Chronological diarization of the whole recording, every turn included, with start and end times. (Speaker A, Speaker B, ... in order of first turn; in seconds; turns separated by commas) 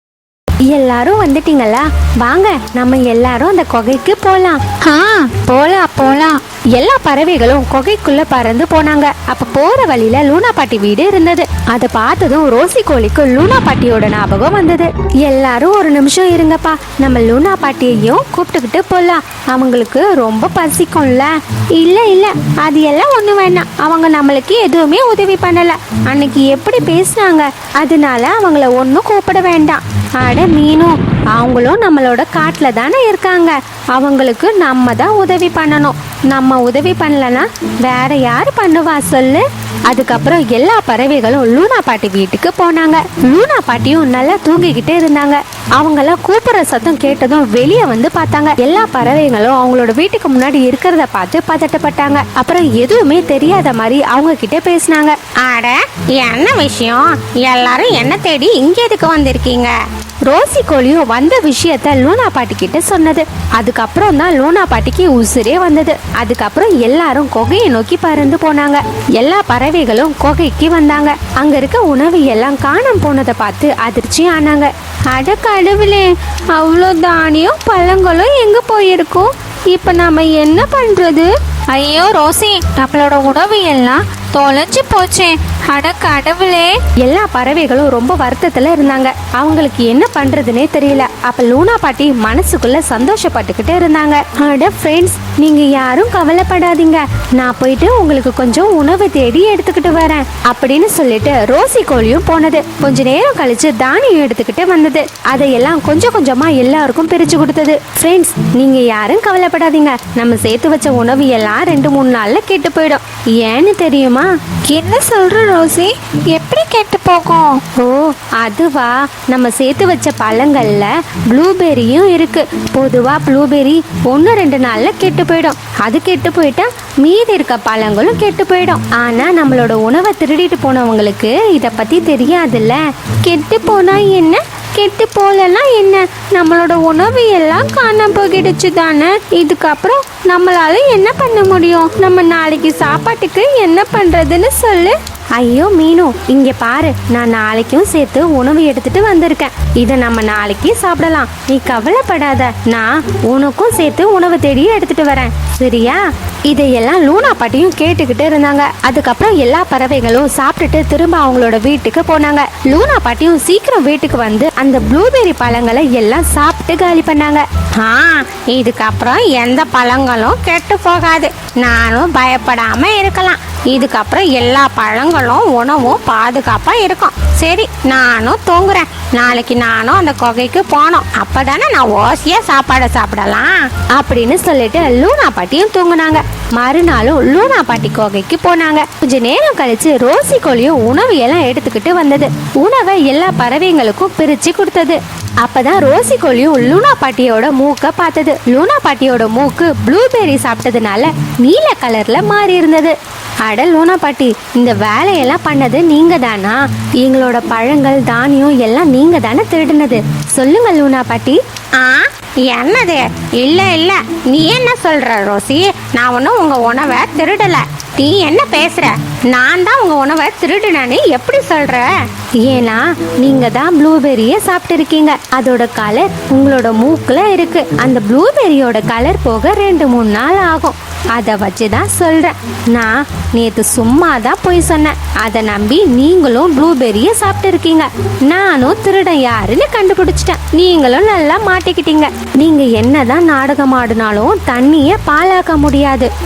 Speaker A: 0.7-4.6, Speaker B: 4.8-6.4, Speaker A: 6.7-55.1, Speaker C: 55.4-59.7, Speaker A: 60.3-81.3, Speaker B: 81.7-86.8, Speaker A: 87.0-114.3, Speaker B: 114.7-117.6, Speaker A: 117.8-167.4, Speaker C: 167.8-183.7, Speaker A: 183.9-211.4, Speaker C: 211.8-221.9, Speaker A: 222.4-246.1